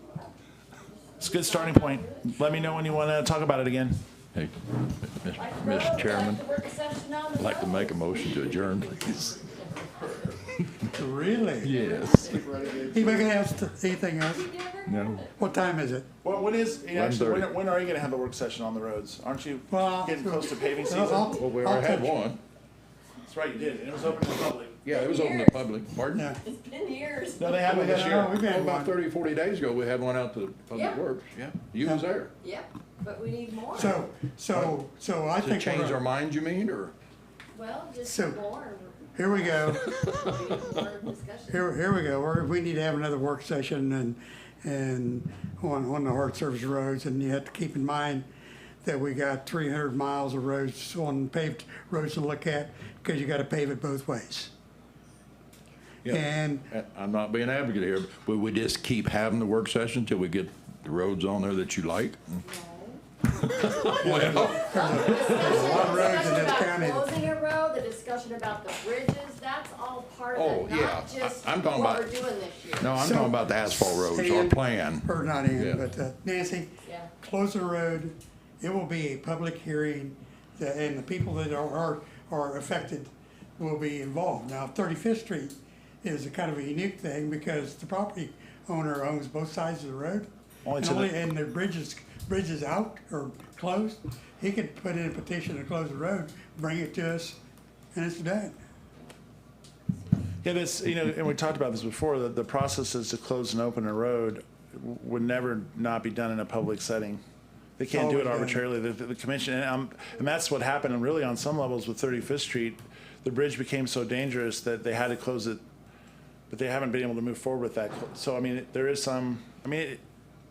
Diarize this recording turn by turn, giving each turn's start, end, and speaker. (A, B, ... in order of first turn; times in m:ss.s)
0:01.1-0:02.8 A
0:01.2-0:04.0 B
0:04.3-0:06.4 C
0:05.3-0:08.8 A
0:07.4-0:09.4 C
0:10.9-0:11.7 D
0:11.6-0:12.5 C
0:11.8-0:12.8 A
0:12.8-0:14.5 D
0:14.2-0:15.3 A
0:14.9-0:15.2 C
0:15.4-0:16.1 D
0:16.2-0:21.4 B
0:16.9-0:17.5 C
0:19.7-0:22.3 D
0:21.3-0:22.4 C
0:23.2-0:24.8 B
0:24.8-0:26.3 C
0:24.9-0:25.7 A
0:26.1-0:26.4 D
0:26.4-0:27.6 A
0:27.4-0:28.4 B
0:27.7-0:32.3 C
0:27.7-0:29.0 D
0:30.7-0:31.0 A
0:32.4-0:34.0 A
0:33.7-0:36.0 D
0:35.4-0:36.9 C
0:37.5-0:41.7 A
0:38.0-0:38.4 D
0:39.1-0:39.8 D
0:41.5-0:48.3 D
0:48.8-0:54.5 D
0:56.0-1:02.4 C
0:56.1-0:56.7 D
1:02.4-1:03.0 A
1:03.5-1:06.2 C
1:04.0-1:07.1 D
1:04.6-1:13.2 A
1:10.3-1:12.2 C
1:12.8-1:15.8 C
1:13.0-1:37.4 D
1:16.8-1:17.1 A
1:30.6-1:31.1 B
1:37.9-1:38.6 D
1:40.4-1:47.2 B
1:47.8-1:55.6 B
1:47.9-1:48.6 D
1:56.5-2:00.0 B